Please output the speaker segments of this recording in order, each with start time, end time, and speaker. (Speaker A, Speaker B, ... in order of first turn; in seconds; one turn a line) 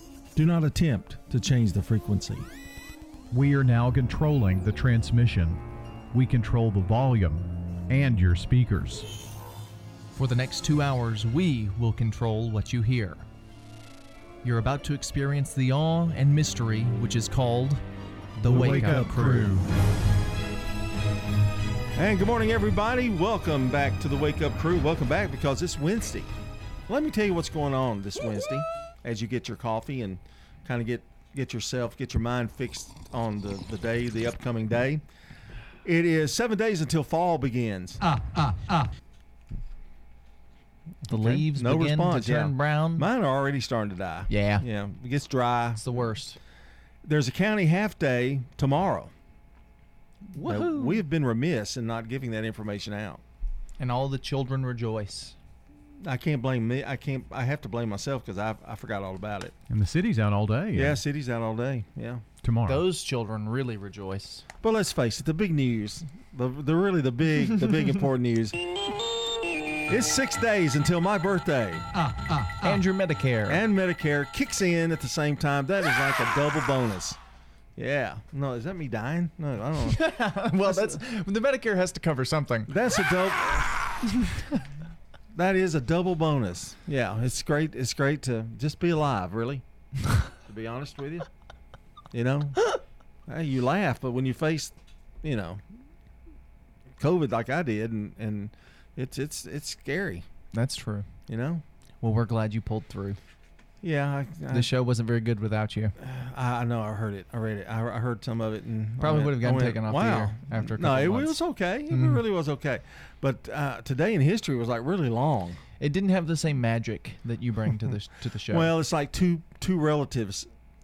Speaker A: 0.3-2.5
Speaker B: 3.3-5.6
Speaker B: 6.1-9.1
Speaker C: 10.2-13.2
Speaker C: 14.4-17.8
Speaker C: 18.4-19.5
Speaker A: 18.4-19.4
Speaker B: 18.5-19.6
Speaker A: 22.0-26.3
Speaker A: 26.9-35.0
Speaker A: 35.8-38.0
Speaker C: 41.1-43.1
Speaker A: 41.1-46.1
Speaker C: 44.3-44.7
Speaker C: 45.8-46.4
Speaker A: 47.0-49.1
Speaker C: 50.3-51.0
Speaker A: 50.4-53.2
Speaker C: 53.8-55.4
Speaker A: 56.0-59.5
Speaker B: 59.7-61.0
Speaker A: 60.7-62.2
Speaker B: 62.4-62.8
Speaker C: 62.7-64.5
Speaker A: 64.6-68.6
Speaker A: 69.9-71.9
Speaker C: 72.6-73.6
Speaker A: 73.5-77.2
Speaker A: 77.8-80.0
Speaker C: 79.9-82.7
Speaker A: 80.6-81.0
Speaker A: 82.7-83.6
Speaker A: 85.3-89.6
Speaker A: 90.5-91.3
Speaker A: 92.1-92.6
Speaker A: 93.3-95.6
Speaker A: 97.0-100.2
Speaker C: 100.5-101.1
Speaker A: 101.3-101.6
Speaker C: 102.0-103.2
Speaker A: 103.8-104.7
Speaker C: 104.5-106.0
Speaker A: 106.0-115.6
Speaker C: 109.0-111.4
Speaker C: 111.9-112.2
Speaker C: 115.8-118.7
Speaker A: 118.5-120.5